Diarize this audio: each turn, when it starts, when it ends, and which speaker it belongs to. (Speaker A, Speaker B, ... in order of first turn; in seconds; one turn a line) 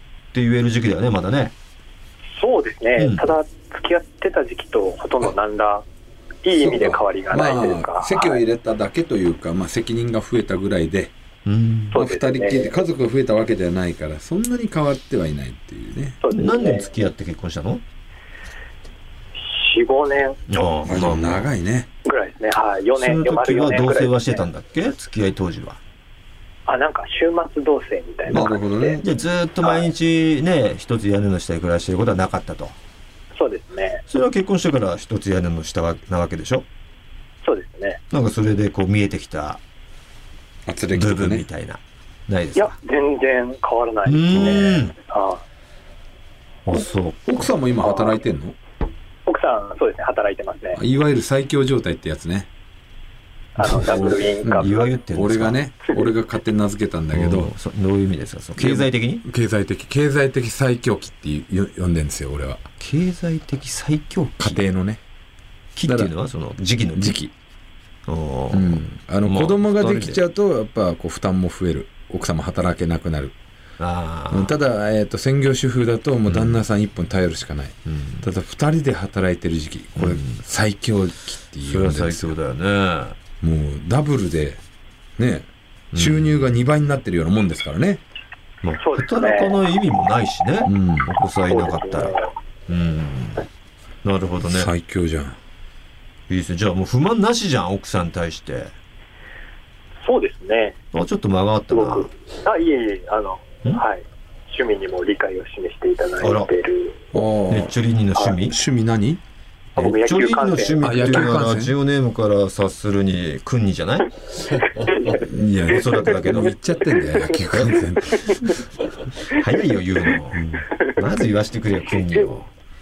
Speaker A: 0.3-1.5
Speaker B: 2.4-5.8
Speaker A: 3.0-3.3
Speaker B: 6.4-8.4
Speaker C: 6.5-11.1
Speaker A: 11.5-12.0
Speaker C: 11.9-16.2
Speaker B: 11.9-12.8
Speaker B: 16.2-16.9
Speaker A: 16.3-17.8
Speaker B: 19.4-20.4
Speaker A: 20.5-21.5
Speaker C: 20.9-21.9
Speaker B: 22.1-24.5
Speaker A: 23.0-25.8
Speaker B: 26.7-29.0
Speaker C: 28.3-29.0
Speaker A: 29.0-32.8
Speaker B: 29.6-29.9
Speaker B: 33.4-34.0
Speaker A: 34.1-36.6
Speaker B: 37.4-38.0
Speaker A: 38.1-39.6
Speaker C: 40.7-41.5
Speaker A: 40.9-42.8
Speaker B: 42.6-45.4
Speaker A: 44.1-44.9
Speaker A: 46.7-47.5
Speaker C: 47.2-48.6
Speaker B: 49.3-50.8
Speaker C: 50.8-52.5
Speaker B: 53.6-54.8
Speaker C: 53.6-57.5
Speaker A: 54.6-55.6
Speaker A: 57.1-59.2
Speaker C: 58.6-62.6
Speaker A: 62.8-64.6
Speaker C: 64.4-65.0
Speaker A: 65.8-67.2
Speaker C: 65.9-66.1
Speaker C: 67.0-67.3
Speaker A: 68.1-70.2
Speaker C: 68.5-73.3
Speaker A: 73.8-74.6
Speaker C: 74.3-82.3
Speaker A: 76.3-76.6
Speaker A: 77.9-78.3
Speaker A: 80.0-80.4
Speaker A: 81.7-83.2
Speaker C: 83.4-84.6
Speaker C: 85.2-88.0
Speaker A: 85.9-86.4
Speaker A: 88.6-93.5
Speaker B: 88.8-89.6
Speaker C: 90.7-91.1
Speaker B: 91.5-92.3
Speaker A: 94.0-94.7
Speaker C: 94.4-95.4
Speaker A: 96.3-98.7
Speaker B: 100.0-100.8
Speaker A: 100.9-102.1
Speaker B: 101.7-107.0
Speaker A: 106.2-106.5
Speaker C: 107.1-107.7
Speaker A: 107.5-108.5
Speaker C: 108.5-109.2
Speaker B: 109.8-110.8
Speaker A: 109.8-114.1
Speaker C: 110.8-111.7
Speaker B: 114.7-115.2
Speaker C: 115.1-118.6
Speaker A: 115.7-116.6
Speaker A: 117.5-117.8
Speaker B: 118.1-118.5
Speaker A: 119.3-122.5
Speaker C: 120.3-120.7